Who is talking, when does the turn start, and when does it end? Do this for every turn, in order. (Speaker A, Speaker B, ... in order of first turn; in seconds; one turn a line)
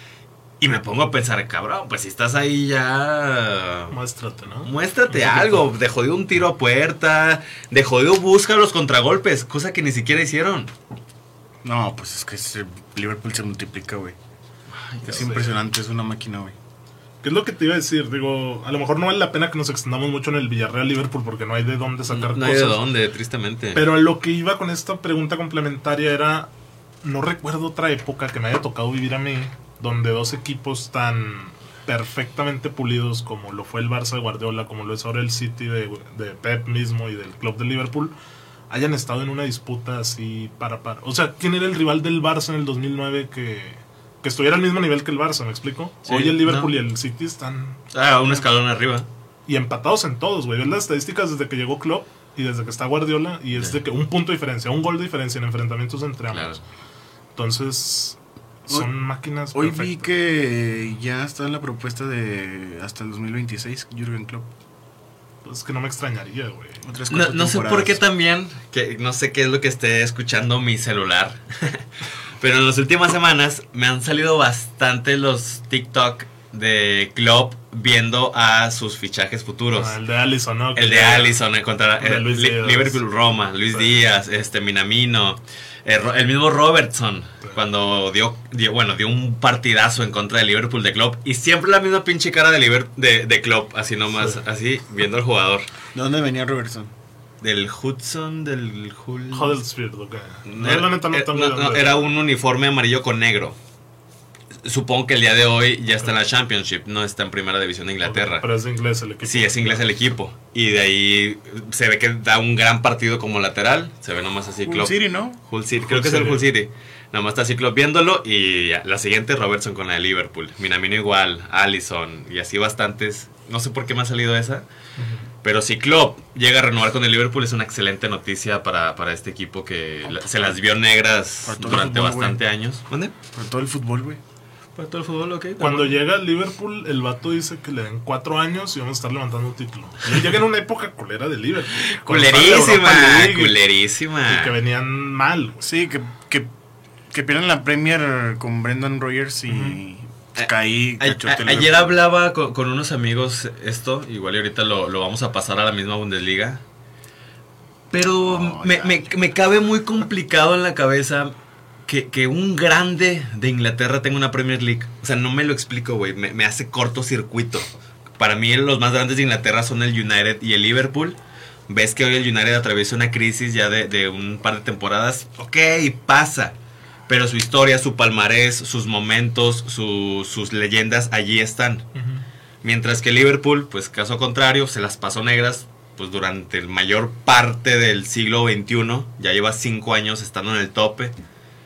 Speaker A: 0.6-3.9
Speaker B: 3.9-5.7
Speaker A: 4.6-10.7
Speaker C: 11.6-14.2
Speaker A: 14.7-15.3
Speaker C: 15.0-16.5
Speaker B: 15.1-15.5
Speaker B: 17.2-22.8
Speaker A: 22.1-23.8
Speaker B: 23.7-26.5
Speaker B: 27.0-38.1
Speaker B: 38.7-48.4
Speaker A: 46.1-46.7
Speaker A: 47.9-49.1
Speaker B: 49.5-56.6
Speaker A: 56.3-56.6
Speaker B: 57.4-58.2
Speaker B: 58.7-60.1
Speaker C: 59.5-64.5
Speaker B: 65.4-66.8
Speaker C: 66.8-68.0
Speaker A: 67.1-71.8
Speaker A: 72.4-80.0
Speaker B: 79.7-81.4
Speaker A: 80.7-95.7
Speaker B: 82.0-83.0
Speaker B: 83.7-84.0
Speaker C: 95.9-96.9
Speaker A: 97.4-99.6
Speaker B: 99.3-102.1
Speaker A: 100.5-103.6
Speaker A: 104.6-108.4
Speaker B: 108.0-109.8
Speaker A: 109.2-124.6
Speaker C: 114.6-115.4
Speaker B: 115.8-116.5
Speaker B: 125.0-125.2
Speaker A: 125.4-133.1
Speaker C: 131.4-132.4
Speaker C: 133.3-134.2
Speaker A: 134.8-136.0
Speaker B: 135.6-143.6
Speaker A: 141.8-144.5
Speaker B: 144.2-145.7
Speaker C: 145.6-146.5
Speaker C: 147.1-152.0
Speaker B: 149.5-149.8
Speaker A: 150.3-156.6
Speaker A: 157.9-161.3
Speaker C: 158.2-159.1
Speaker A: 161.9-167.7
Speaker A: 168.2-176.5
Speaker A: 177.1-181.8
Speaker B: 181.9-182.2
Speaker A: 182.6-191.1